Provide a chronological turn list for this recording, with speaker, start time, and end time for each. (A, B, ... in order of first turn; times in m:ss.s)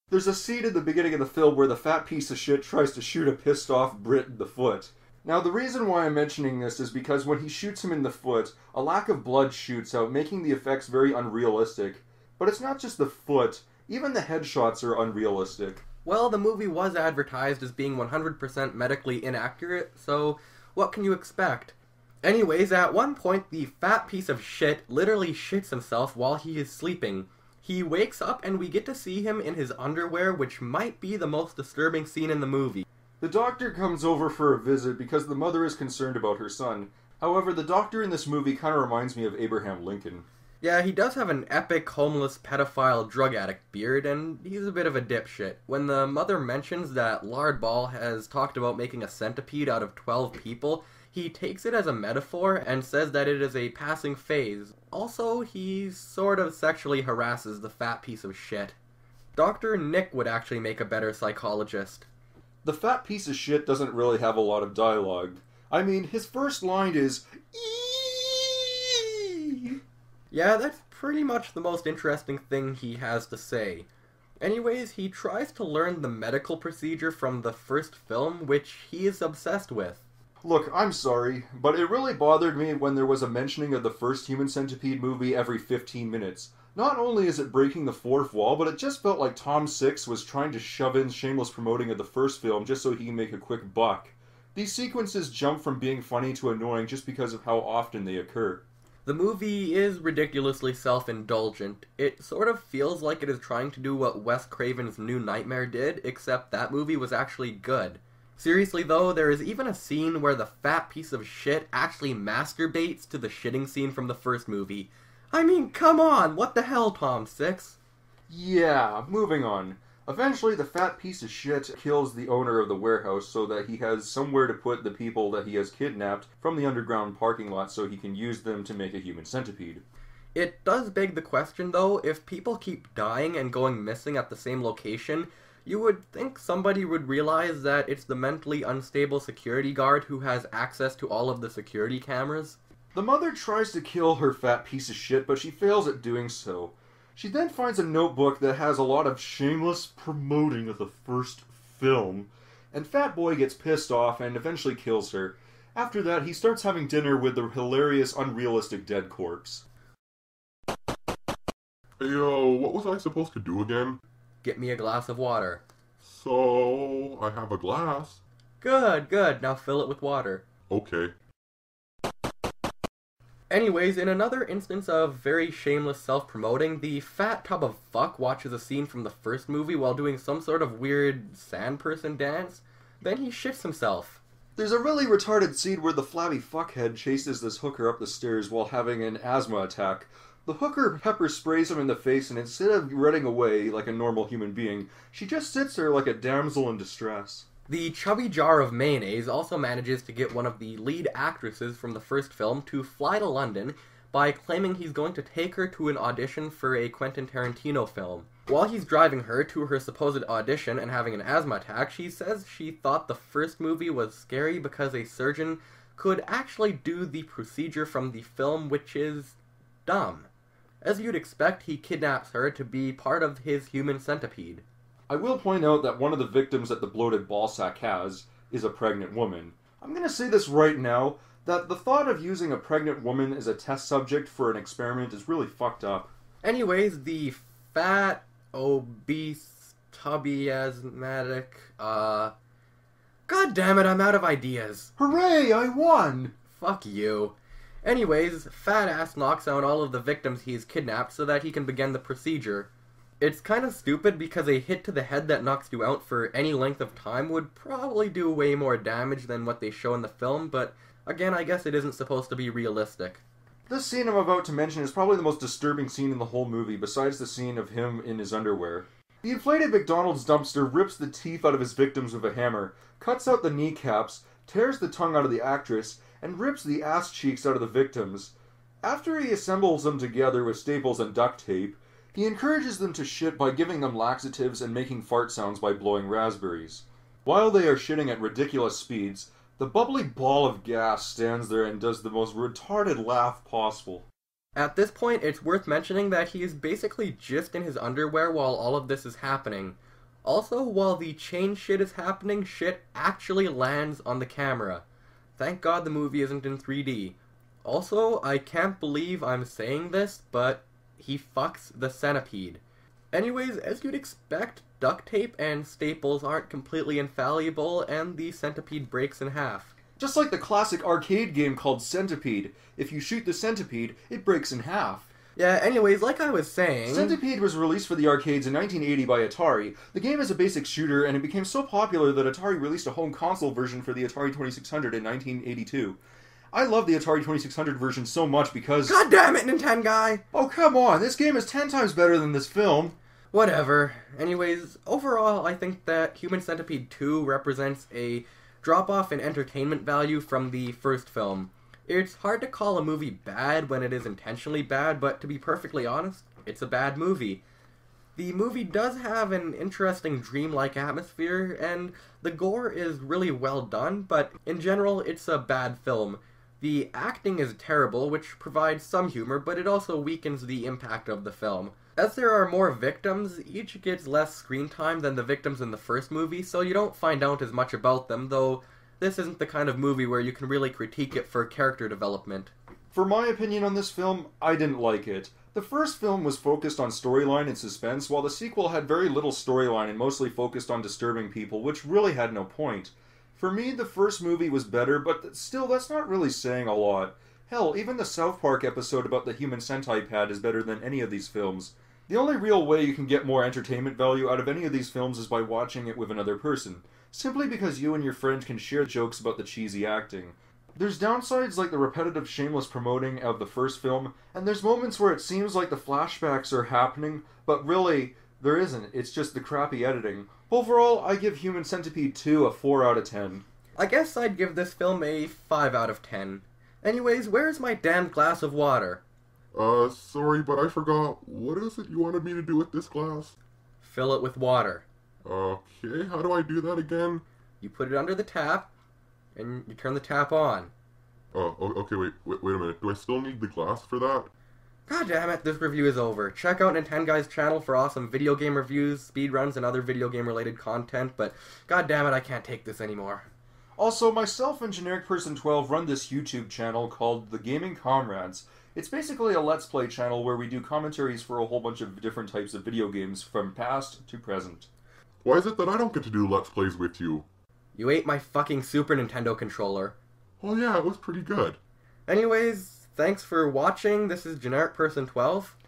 0:00.1-0:15.8 A
0:16.0-0:32.8 B
0:33.2-0:40.2 A
0:40.6-0:58.8 B
0:59.4-1:02.0 B
1:02.6-1:09.8 A
1:10.3-1:13.9 B
1:14.4-1:20.0 B
1:20.4-1:38.6 A
1:39.0-1:57.8 B
1:58.3-2:09.8 A
2:10.3-2:22.6 B
2:22.9-2:39.6 A
2:42.0-2:44.0 C
2:44.4-2:45.6 B
2:46.0-2:48.2 C
2:48.6-2:50.4 B
2:50.7-2:51.1 C
2:53.5-3:04.2 B
3:04.6-3:17.4 A
3:17.7-3:40.3 B
3:40.8-3:44.6 B
3:45.1-3:56.1 A
3:56.4-4:02.3 B
4:03.3-4:04.9 B
4:05.0-4:06.3 A
4:06.5-4:23.2 B
4:23.7-4:54.1 A
4:54.6-5:04.8 B
5:05.4-5:19.7 B
5:20.0-5:25.1 A
5:25.3-5:27.2 B
5:26.9-5:36.0 A
5:36.5-5:39.0 A
5:38.8-5:40.2 B
5:40.3-5:43.0 A
5:43.3-5:57.4 B
5:58.2-6:22.5 B
6:22.9-7:03.4 A
7:03.8-7:09.0 B
7:09.5-7:13.3 C
7:13.8-7:14.8 B
7:15.2-7:17.2 C
7:17.6-7:18.7 B
7:19.3-7:20.7 B
7:21.3-7:24.3 C
7:24.9-7:33.3 B
7:33.8-7:44.7 A
7:45.2-7:47.3 C
7:47.7-7:50.0 B
7:50.4-7:51.6 C
7:52.1-7:55.6 B